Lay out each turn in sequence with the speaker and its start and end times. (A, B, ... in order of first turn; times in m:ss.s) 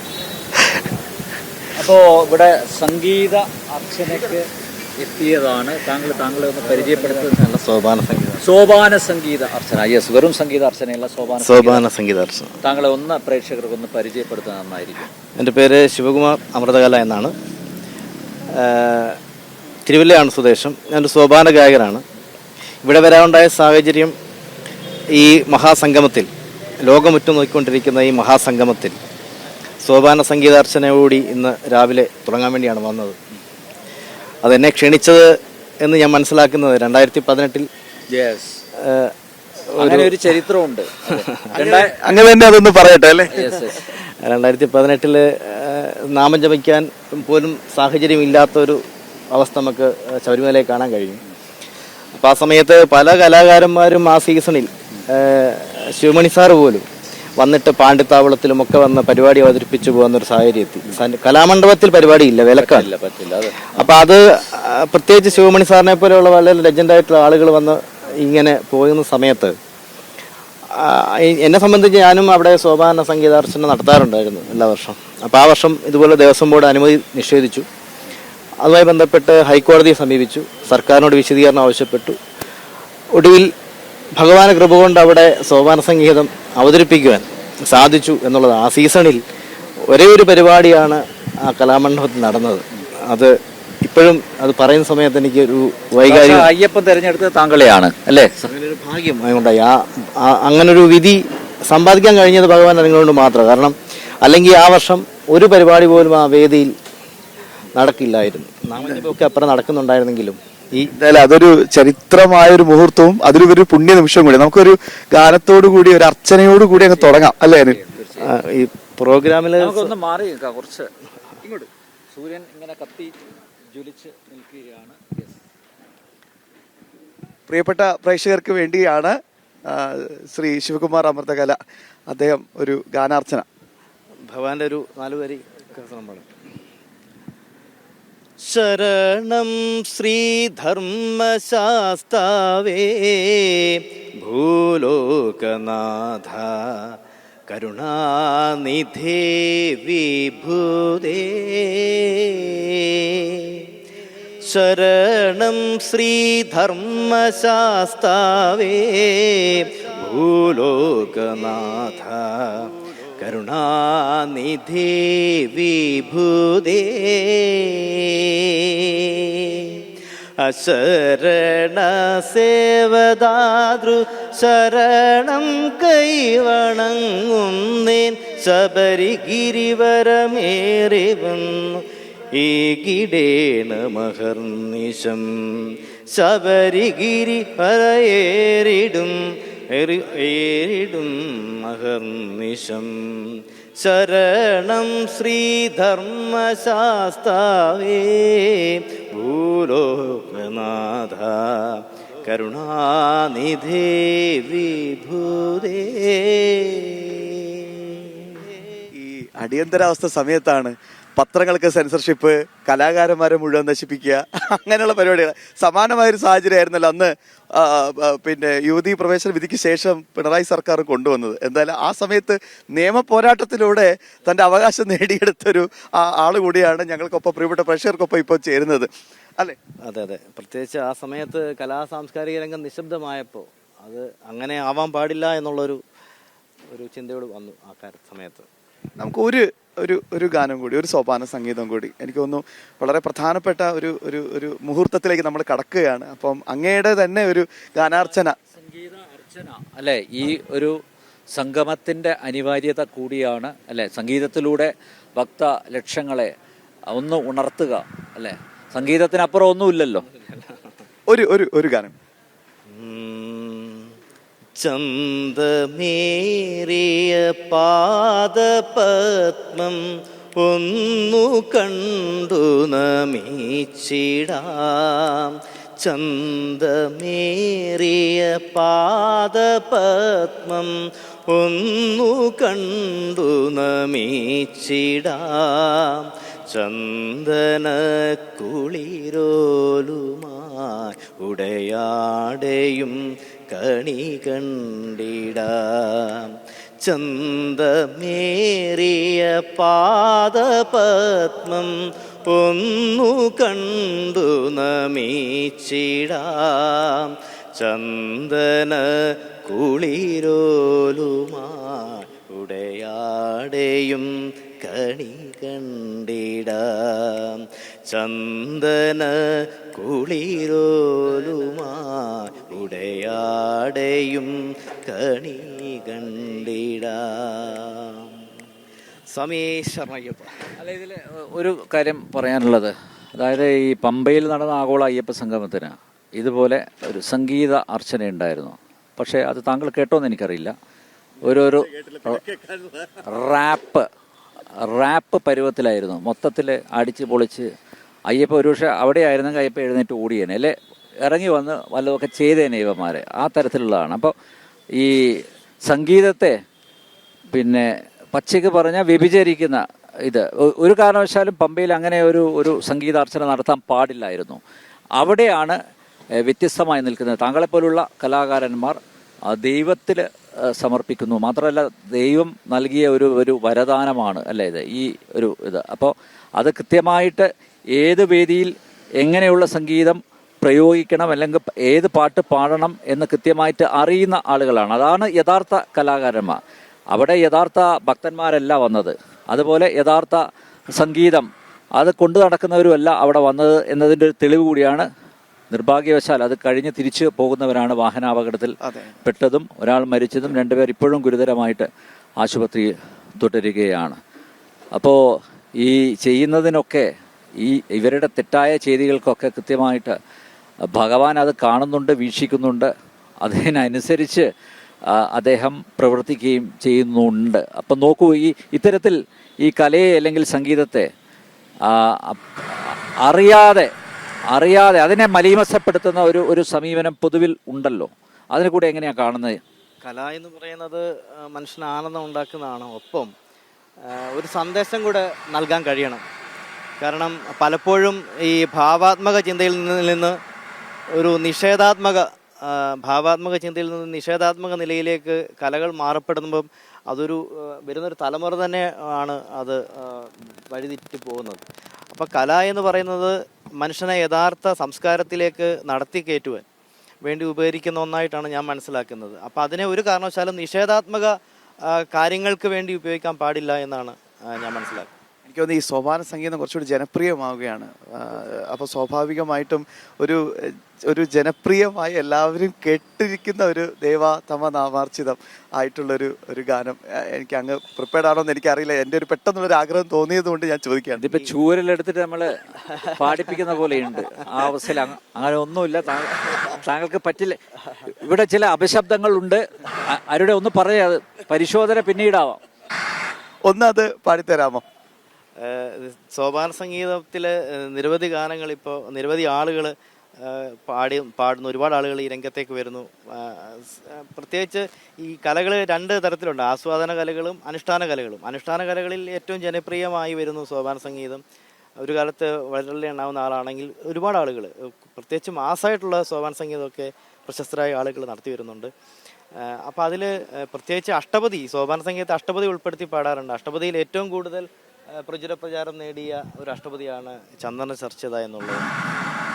0:01.8-0:07.4 A
0:06.9-0:08.4 B
0:08.4-0:11.8 A
0:11.4-0:12.5 B
0:12.6-0:15.1 A
0:15.3-0:17.3 B
0:18.5-0:19.2 B
0:19.8-0:22.0 B
0:22.8-0:24.1 B
0:25.1-0:26.3 B
0:26.8-0:29.0 B
0:29.8-0:33.2 B
0:34.4-0:37.7 B
0:38.1-0:38.6 A
0:38.8-0:39.1 B
0:39.7-0:40.1 B
0:39.8-0:42.0 A
0:41.1-0:41.5 B
0:41.5-0:43.4 C
0:43.3-0:43.8 A
0:43.4-0:51.2 B
0:52.2-1:02.9 B
1:02.6-1:03.9 A
1:03.7-1:09.6 B
1:10.7-1:17.7 B
1:18.6-1:22.2 B
1:23.1-1:23.5 B
1:24.2-1:29.2 B
1:29.9-1:36.5 B
1:36.0-1:38.5 A
1:38.4-1:46.7 B
1:47.8-1:50.9 B
1:51.0-1:57.8 C
1:56.8-1:58.3 A
1:58.2-1:59.9 B
1:59.6-2:00.9 A
2:01.4-2:03.1 A
2:03.7-2:05.4 A
2:07.5-2:09.2 C
2:09.7-2:11.6 C
2:12.1-2:13.4 C
2:14.3-2:16.2 B
2:18.4-2:27.0 B
2:27.5-2:33.7 B
2:34.4-2:49.9 B
2:50.4-3:28.5 B
3:29.0-3:49.6 C
3:49.8-3:55.8 B
3:56.7-3:58.5 B
3:59.0-4:08.4 C
4:07.9-4:10.8 A
4:11.3-4:16.3 A
4:16.9-4:20.0 A
4:20.2-4:20.6 B
4:21.1-4:21.9 C
4:22.7-4:23.9 B
4:24.6-4:29.8 B
4:30.4-5:28.1 B
5:29.1-5:30.4 B
5:30.6-5:40.5 A
5:41.2-5:42.5 A
5:43.0-5:43.8 A
5:44.6-5:47.4 A
5:48.1-5:50.5 A
5:51.0-5:54.1 A
5:54.8-5:56.3 A
5:57.3-6:04.4 A
6:05.0-6:05.6 A
6:06.2-6:08.8 A
6:09.3-6:10.0 A
6:10.6-6:26.4 A
6:26.9-6:30.2 A
6:30.7-6:34.9 A
6:35.5-6:41.7 A
6:38.6-6:38.9 C
6:42.2-6:42.7 A
6:43.2-6:44.0 A
6:45.6-6:46.8 A
6:47.4-6:50.0 A
6:50.7-6:52.7 A
6:53.2-6:54.2 A
6:54.9-7:00.9 A
7:01.7-7:03.7 A
7:04.3-7:09.4 A
7:09.8-7:13.1 B
7:13.8-7:16.0 B
7:16.8-7:20.2 B
7:20.9-7:36.4 B
7:37.0-7:44.9 B
7:45.2-8:01.1 C
8:01.0-8:12.4 A
8:02.7-8:04.1 B
8:13.5-8:14.6 C
8:15.4-8:31.2 B
8:31.8-8:38.7 B
8:39.3-8:48.7 B